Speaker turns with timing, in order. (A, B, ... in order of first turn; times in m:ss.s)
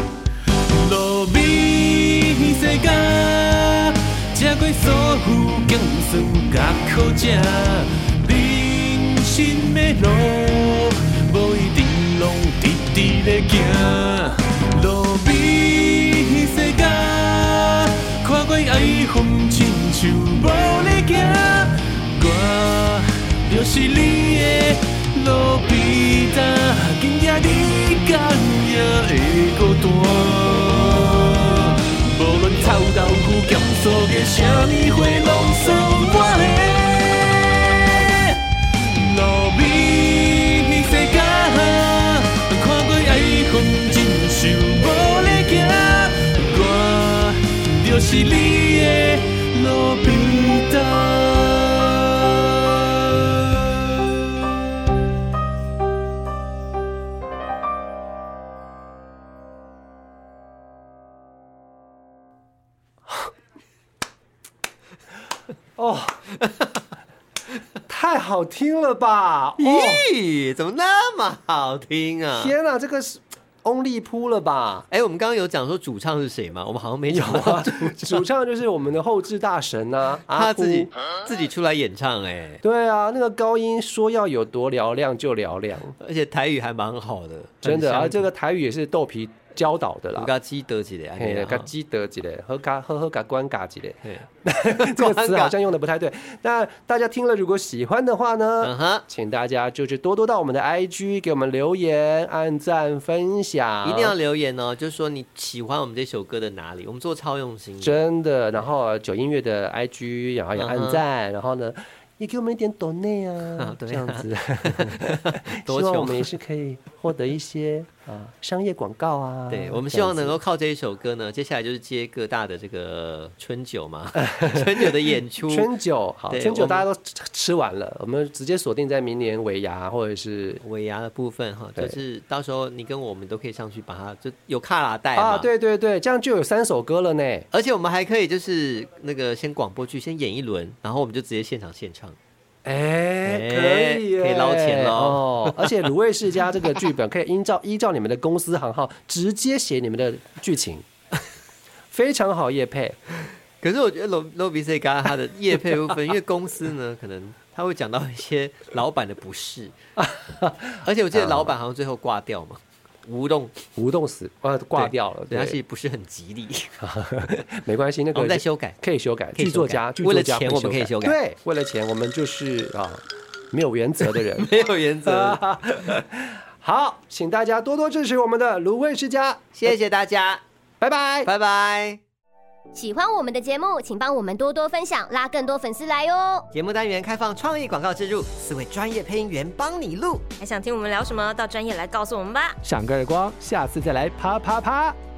0:00.5-0:52.5 A
1:05.8-1:06.2 B
1:07.9-1:10.0 B
1:09.6-1:12.6 C
1:12.3-1:14.9 B
1:14.9-1:18.3 C
1:17.1-1:20.9 B
1:20.3-1:22.6 C
1:22.6-1:26.0 B
1:26.0-1:28.3 C
1:27.6-1:30.3 B
1:30.2-1:31.7 C
1:31.2-1:44.2 B
1:34.0-1:35.6 C
1:38.6-1:39.0 C
1:43.8-1:48.0 C
1:47.8-2:00.4 B
1:50.6-1:51.0 C
1:53.6-1:56.3 C
1:59.5-2:05.7 C
2:04.2-2:05.0 B
2:05.5-2:10.6 B
2:06.3-2:06.9 C
2:10.6-2:15.5 C
2:15.2-2:17.5 B
2:17.5-2:22.2 C
2:22.6-2:30.9 B
2:23.2-2:25.9 C
2:31.9-2:33.0 B
2:33.6-2:39.8 C
2:40.0-2:41.6 B
2:40.8-2:43.6 C
2:43.8-2:45.6 B
2:44.7-2:46.9 C
2:46.8-2:54.5 B
2:48.1-2:48.8 C
2:49.4-2:51.2 C
2:54.4-2:56.0 C
2:55.0-2:59.7 B
2:59.5-3:00.4 C
3:00.8-3:01.3 B
3:01.2-3:02.0 C
3:02.7-3:06.5 D
3:06.5-3:10.3 C
3:10.4-3:12.6 E
3:12.6-3:15.0 B